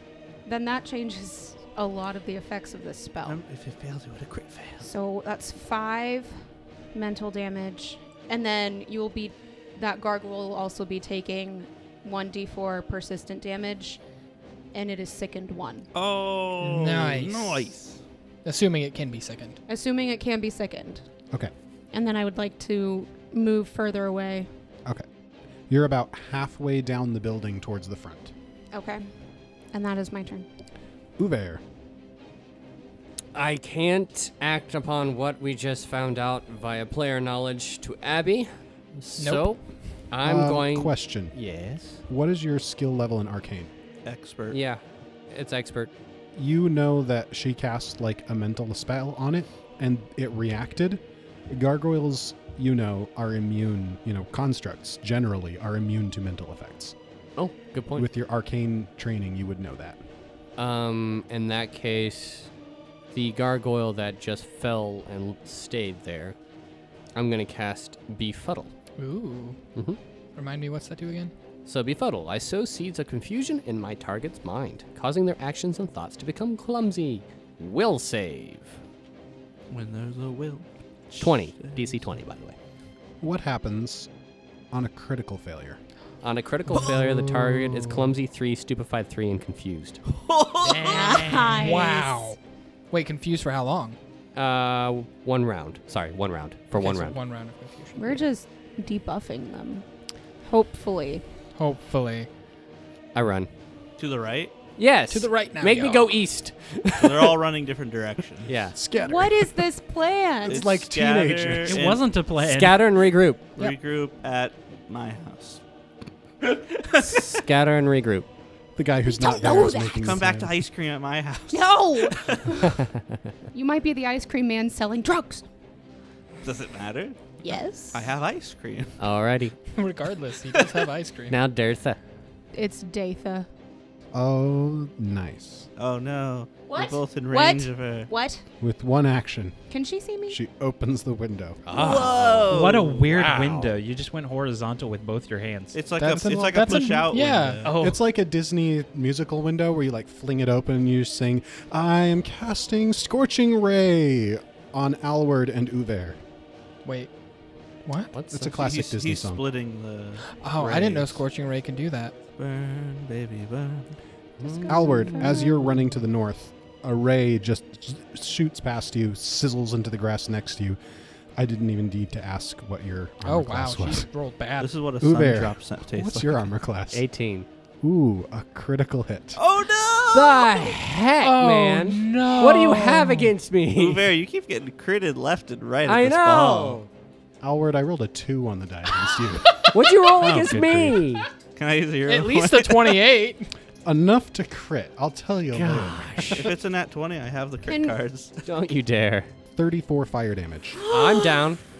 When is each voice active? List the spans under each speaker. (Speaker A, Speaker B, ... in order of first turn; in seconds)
Speaker A: 0.5-3.4, 4.8-6.4, 6.9-14.0, 14.7-15.9, 19.7-21.0, 21.9-24.5, 28.7-29.1, 29.7-30.5, 90.7-92.2, 98.0-99.8, 100.4-101.2, 109.0-110.6, 119.0-120.2, 121.5-122.7, 123.5-125.4, 127.4-128.0, 132.5-133.5, 136.7-138.4, 139.7-140.4, 164.4-165.5, 197.7-198.0, 201.1-201.4
Speaker B: 3.2-4.9, 15.9-18.0, 44.0-44.6, 79.7-82.2, 90.1-91.2, 104.0-104.5, 107.0-108.5, 110.5-112.1, 113.5-115.6, 119.9-122.5, 126.4-127.2, 127.9-128.9, 135.8-138.1, 141.7-143.1, 145.7-147.7, 158.5-161.2, 162.4-163.9, 174.6-176.5, 179.3-180.8, 183.7-186.8, 191.5-193.0, 196.3-198.4
Speaker C: 16.6-17.7, 18.4-19.6, 39.2-39.5, 69.0-69.6, 70.3-71.3, 86.7-87.8, 91.5-92.4, 92.9-94.0, 96.7-98.2, 101.5-102.3, 105.1-106.2, 129.7-131.4, 146.5-147.6, 156.8-157.1, 157.8-158.1, 160.2-162.1, 173.2-174.7, 181.2-183.3, 192.1-193.5
Speaker D: 25.7-28.3, 31.2-31.6, 40.2-41.4, 42.1-43.7, 46.3-56.9, 58.0-60.0, 83.2-84.1, 84.7-85.8, 108.7-109.7, 110.5-111.8, 118.8-120.6, 134.1-135.7, 138.6-139.6, 140.3-141.6, 146.0-147.2, 147.8-156.2, 158.3-159.4, 164.7-170.8, 171.3-174.1, 175.0-177.1, 177.8-179.4, 187.4-191.0, 193.8-196.3, 199.5-200.8
Speaker E: 33.3-42.0, 44.5-45.9, 57.4-58.1, 60.6-62.5, 63.1-66.3, 67.1-68.7, 71.7-78.8, 81.2-82.5, 86.2-90.0, 94.3-97.2, 103.1-103.5, 104.8-107.4, 108.5-108.8, 112.3-113.5, 116.9-118.3, 129.0-129.5, 131.3-132.0, 141.7-143.8, 158.1-158.6, 164.4-165.5, 176.9-177.5, 180.1-184.1, 185.8-186.9, 189.7-191.3, 195.5-196.5, 198.4-199.3, 200.9-201.6
Speaker F: 90.6-91.8, 111.7-112.8, 141.8-145.8, 147.6-148.0